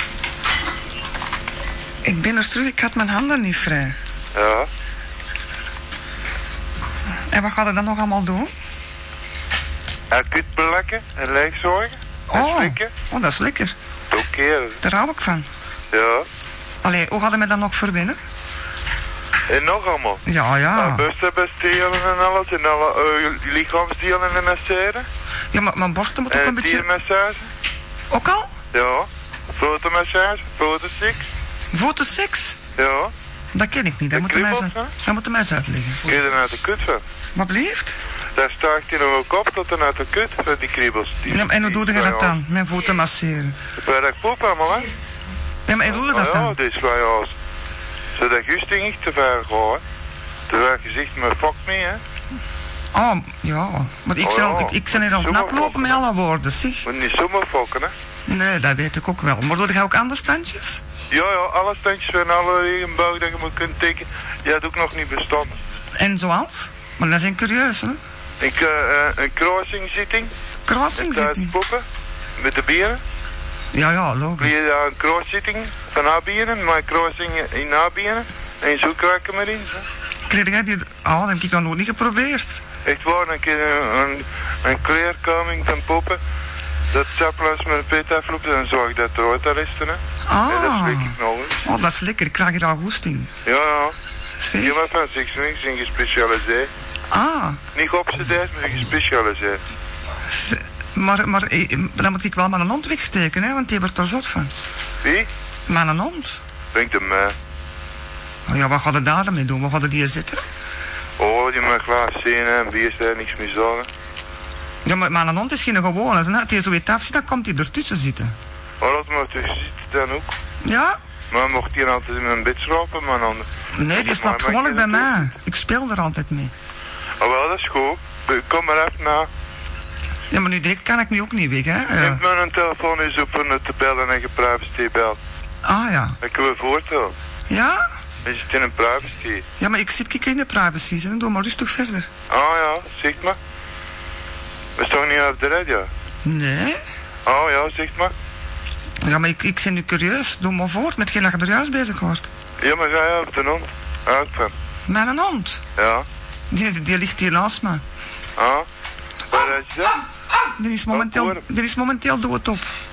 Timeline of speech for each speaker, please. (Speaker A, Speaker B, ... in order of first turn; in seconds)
Speaker A: 2.0-4.0, 7.3-8.5, 12.3-13.7, 14.8-15.5, 16.8-18.2, 20.3-21.0, 25.5-26.9, 28.1-28.5, 31.7-32.6, 33.5-36.0, 37.4-38.0, 41.3-43.6, 45.7-46.5, 52.9-56.9, 58.3-60.8, 66.0-68.0, 70.7-71.5, 73.7-74.6, 80.3-82.6, 90.3-91.1, 91.7-93.3, 94.4-94.8, 97.1-97.6, 100.3-104.5, 105.7-106.4, 108.5-110.4, 114.8-118.3, 120.6-121.0, 123.8-126.5, 130.3-132.2, 135.7-136.2, 137.5-137.8, 139.6-142.1, 146.2-146.8, 149.0-152.3, 154.9-155.6, 156.5-157.8, 160.6-162.7
Speaker B: 4.3-4.7, 10.1-12.9, 14.1-14.8, 15.9-16.3, 19.5-20.2, 20.7-25.1, 26.3-27.5, 28.7-31.2, 32.8-33.1, 34.1-34.9, 36.0-37.0, 38.4-42.4, 43.8-44.9, 45.9-47.3, 48.1-49.8, 50.5-52.0, 54.2-56.0, 56.8-57.9, 61.1-65.6, 68.4-70.3, 71.0-71.8, 72.4-73.0, 74.4-79.9, 82.8-86.2, 86.9-91.6, 93.5-94.0, 94.6-96.7, 97.7-99.6, 105.0-105.3, 106.7-107.3, 111.2-113.9, 118.8-120.3, 121.3-125.2, 127.2-129.3, 132.0-135.2, 136.2-137.1, 138.2-139.4, 142.3-143.4, 144.8-145.9, 147.2-148.1, 152.6-154.5, 155.8-156.1, 158.4-158.7, 159.3-160.0, 160.9-161.4